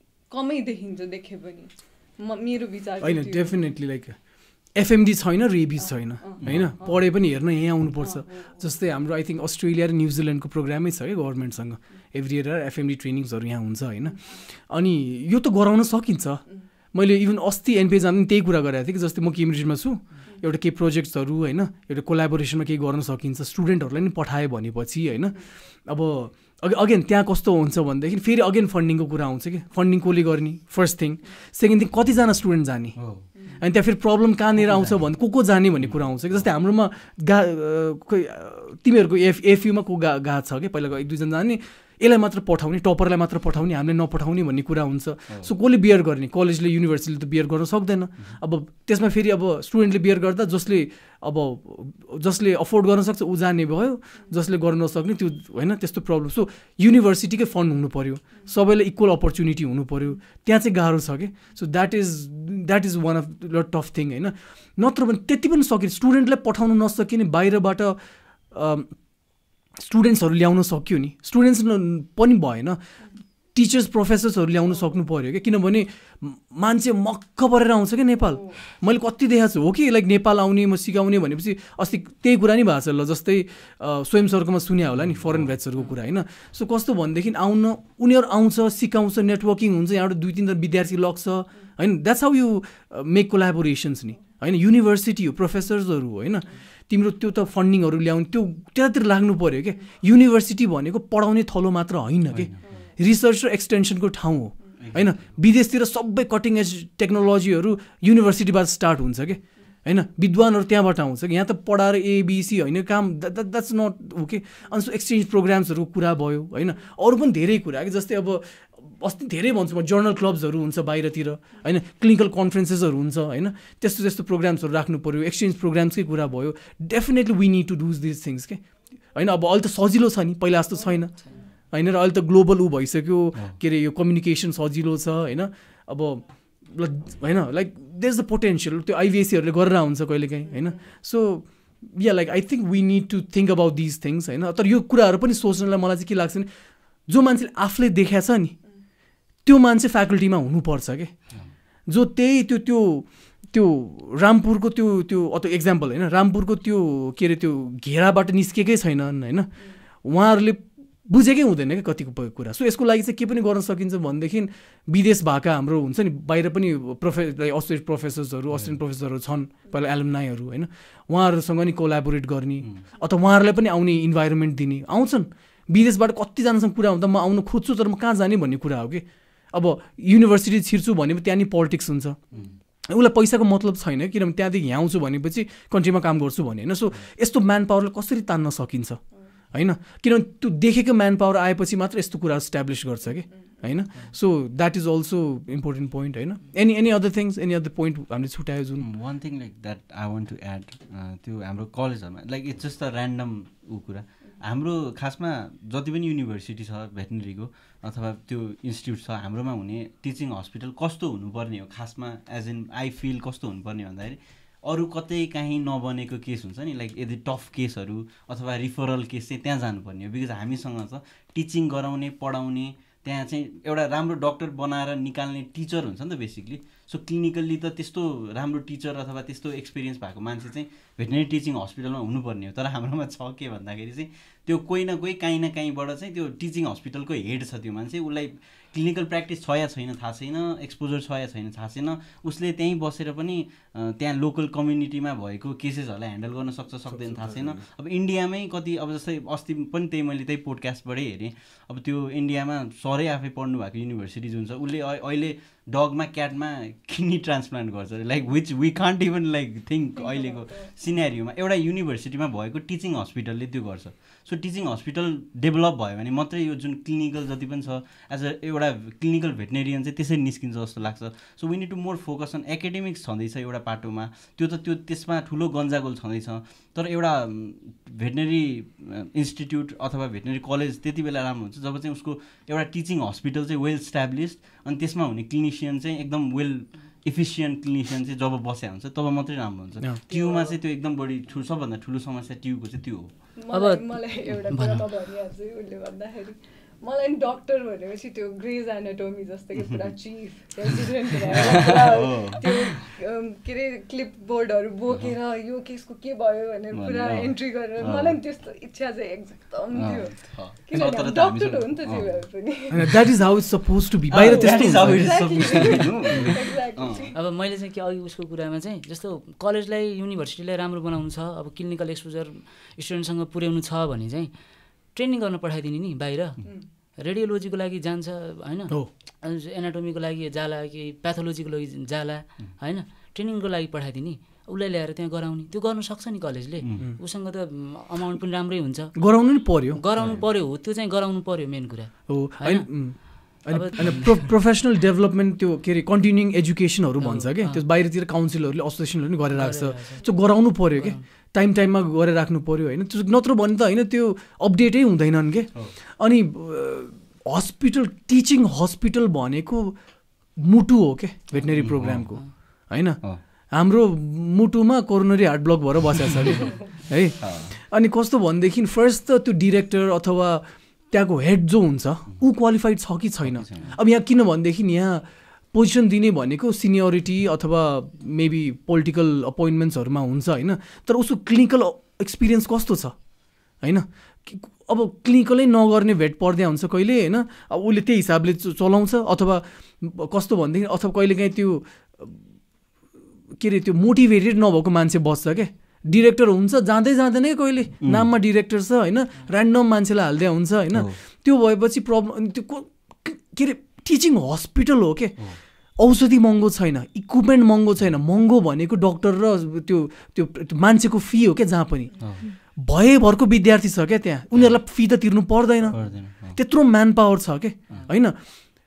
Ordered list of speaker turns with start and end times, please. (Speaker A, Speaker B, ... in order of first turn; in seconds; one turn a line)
Speaker A: 0.3-3.7
Speaker B: 3.0-33.0
Speaker A: 5.8-7.0
Speaker C: 6.4-6.8
Speaker A: 8.0-8.7
Speaker C: 33.0-33.2
Speaker B: 33.6-68.0
Speaker C: 34.6-35.0
Speaker C: 35.9-36.5
Speaker B: 68.5-68.9
Speaker B: 69.8-72.8
Speaker B: 73.5-131.1
Speaker C: 85.0-85.5
Speaker C: 102.3-102.6
Speaker A: 102.6-102.9
Speaker C: 104.8-105.2
Speaker A: 131.1-131.4
Speaker B: 131.7-146.5
Speaker B: 147.1-148.5
Speaker B: 149.4-151.2
Speaker B: 151.9-159.5
Speaker B: 160.0-182.2
Speaker B: 182.9-189.0
Speaker B: 189.5-198.8
Speaker C: 198.8-293.3
Speaker B: 246.9-247.6
Speaker A: 259.9-260.7
Speaker A: 290.1-290.6
Speaker A: 293.3-312.9
Speaker D: 293.5-294.9
Speaker C: 301.3-302.7
Speaker C: 306.7-308.2
Speaker C: 309.7-312.2
Speaker B: 312.7-315.1
Speaker C: 314.1-317.1
Speaker A: 314.2-317.1
Speaker D: 317.1-324.3
Speaker D: 324.9-326.4
Speaker D: 327.0-344.3
Speaker C: 336.6-336.9
Speaker B: 338.9-339.8
Speaker C: 339.9-340.3
Speaker B: 342.1-359.8
Speaker D: 347.0-347.6
Speaker D: 349.3-351.0
Speaker B: 360.4-363.0
Speaker C: 361.5-362.3
Speaker B: 363.5-382.9
Speaker C: 367.2-367.6
Speaker C: 373.2-373.8
Speaker B: 383.6-392.2
Speaker B: 393.4-418.2
Speaker C: 397.8-398.1
Speaker C: 415.7-416.4